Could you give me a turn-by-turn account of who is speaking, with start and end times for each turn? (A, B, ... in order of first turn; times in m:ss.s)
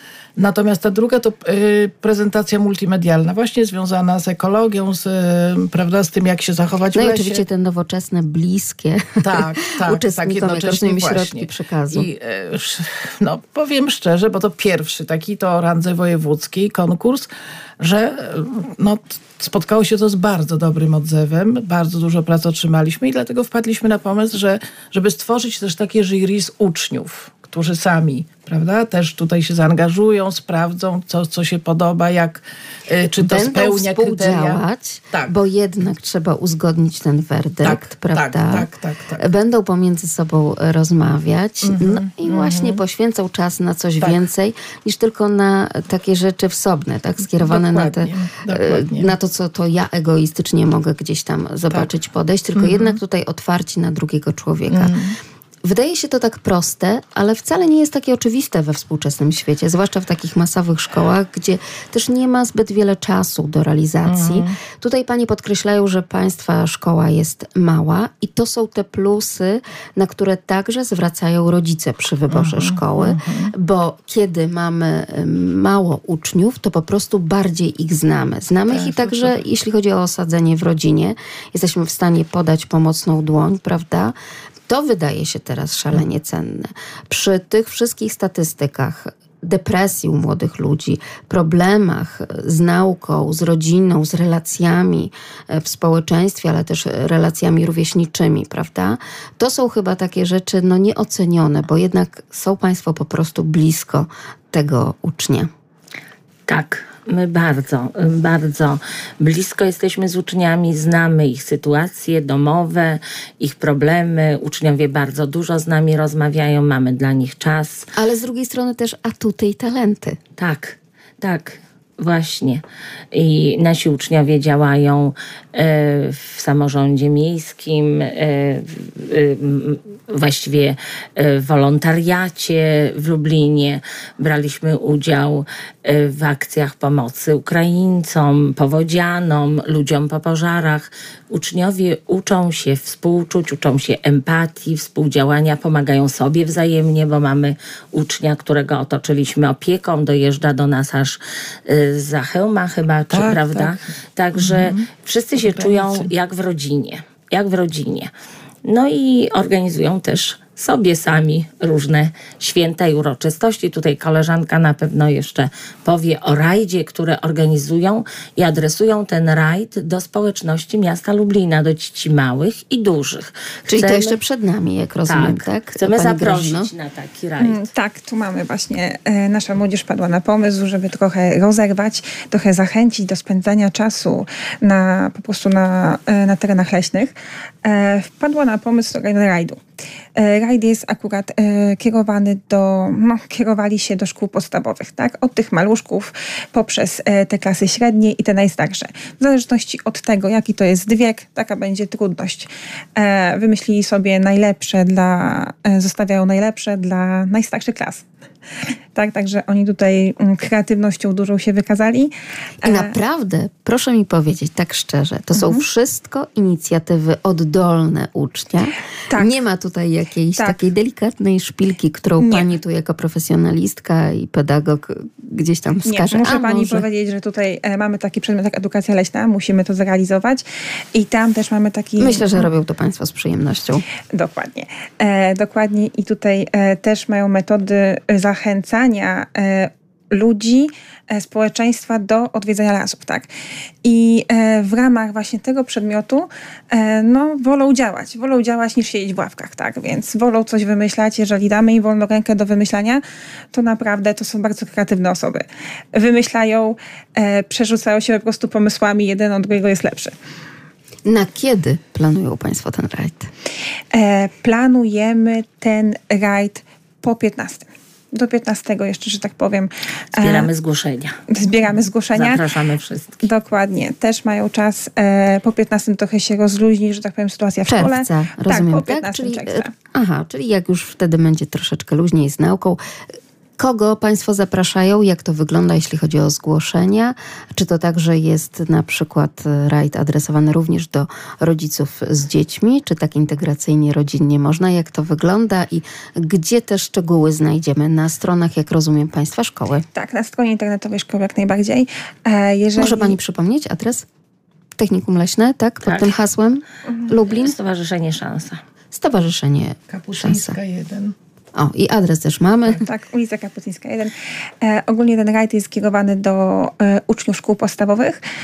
0:00.4-0:07.4 A
0:06.9-0:12.1 B
0:09.2-0:17.3 A
0:17.8-0:35.4 A
0:33.2-0:54.9 B
0:37.6-0:39.3 A
0:41.6-0:42.8 A
0:47.4-0:49.1 A
0:52.5-0:53.0 A
0:54.7-0:55.2 A
0:55.6-1:24.1 B
1:04.0-1:04.6 A
1:12.3-1:13.5 A
1:18.7-1:19.4 A
1:24.7-1:45.5 B
1:46.5-1:57.9 C
1:57.9-2:00.2 B
2:00.4-2:38.1 C
2:33.1-2:33.8 A
2:34.3-2:34.9 A
2:35.4-2:36.1 A
2:38.6-2:54.1 C
2:53.7-2:56.7 B
2:55.0-2:57.6 C
2:57.4-3:09.6 D
3:10.2-3:28.1 D
3:28.9-3:32.1 D
3:32.6-3:32.9 D
3:32.6-3:46.8 B
3:35.4-3:35.6 D
3:42.2-3:42.5 D
3:45.9-3:50.4 D
3:50.9-3:52.5 D
3:52.0-3:53.8 B
3:54.1-4:03.3 D
4:03.8-4:13.0 D
4:13.5-4:20.1 D
4:21.0-4:23.3 B
4:23.9-4:30.5 D
4:30.2-4:31.2 C
4:31.3-4:32.4 D
4:32.1-4:33.2 C
4:33.2-4:39.7 D
4:37.7-4:42.8 B
4:43.6-4:59.9 B
4:59.9-5:03.2 D
5:02.8-5:04.0 B
5:04.8-5:07.6 B
5:05.9-5:06.1 C
5:07.3-5:08.6 C
5:08.9-5:10.6 B
5:09.9-5:11.1 A
5:11.5-5:12.9 B
5:12.8-5:18.2 D